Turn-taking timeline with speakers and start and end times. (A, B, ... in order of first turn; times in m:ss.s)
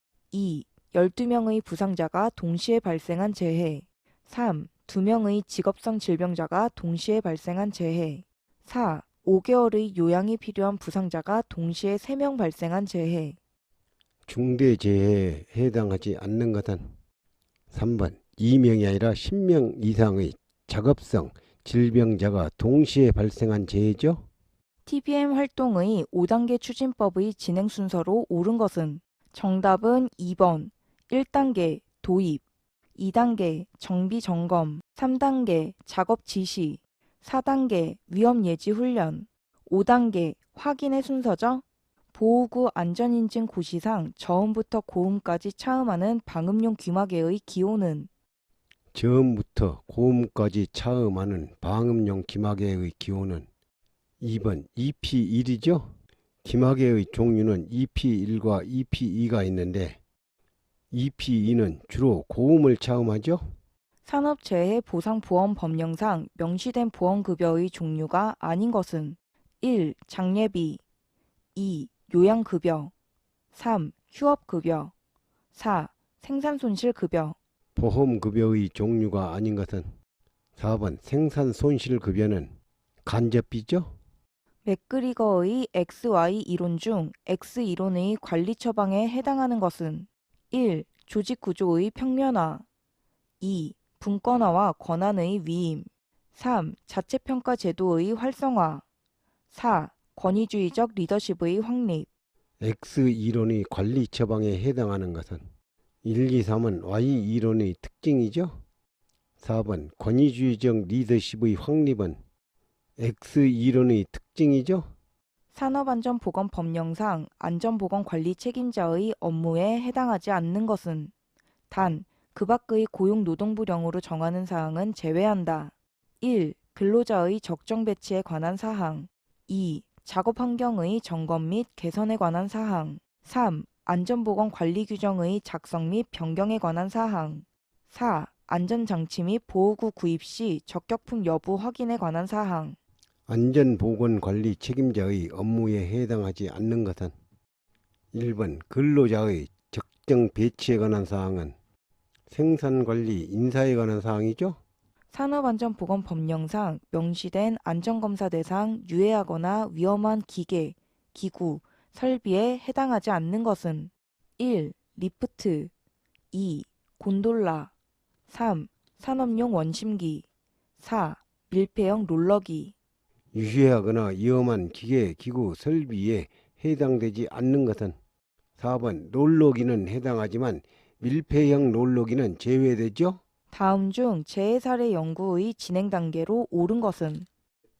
0:00.3-0:13.4 A
0:14.3-0:16.9 B
0:17.7-0:24.2 B
0:24.8-0:32.4 A
0:33.0-0:41.6 A
0:42.1-0:48.1 A
0:48.9-0:53.5 B
0:54.2-0:55.9 B
0:56.4-1:00.0 B
1:00.9-1:03.4 B
1:04.0-1:10.8 A
1:11.5-1:12.9 A
1:13.5-1:14.9 A
1:15.5-1:17.4 A
1:17.7-1:19.9 B
1:20.6-1:22.5 B
1:23.0-1:23.9 B
1:24.6-1:32.6 A
1:33.4-1:38.8 A
1:39.5-1:42.1 A
1:42.6-1:45.4 B
1:46.0-1:48.6 B
1:49.4-1:52.2 B
1:53.0-1:54.9 B
1:55.5-2:01.1 A
2:01.7-2:22.8 A
2:23.3-2:27.1 B
2:28.1-2:31.5 B
2:32.3-2:34.6 B
2:35.1-2:45.7 A
2:46.3-2:47.7 A
2:48.3-2:50.2 A
2:50.8-2:52.7 A
2:53.3-2:58.0 B
2:58.6-3:03.2 B
3:03.5-3:07.2 A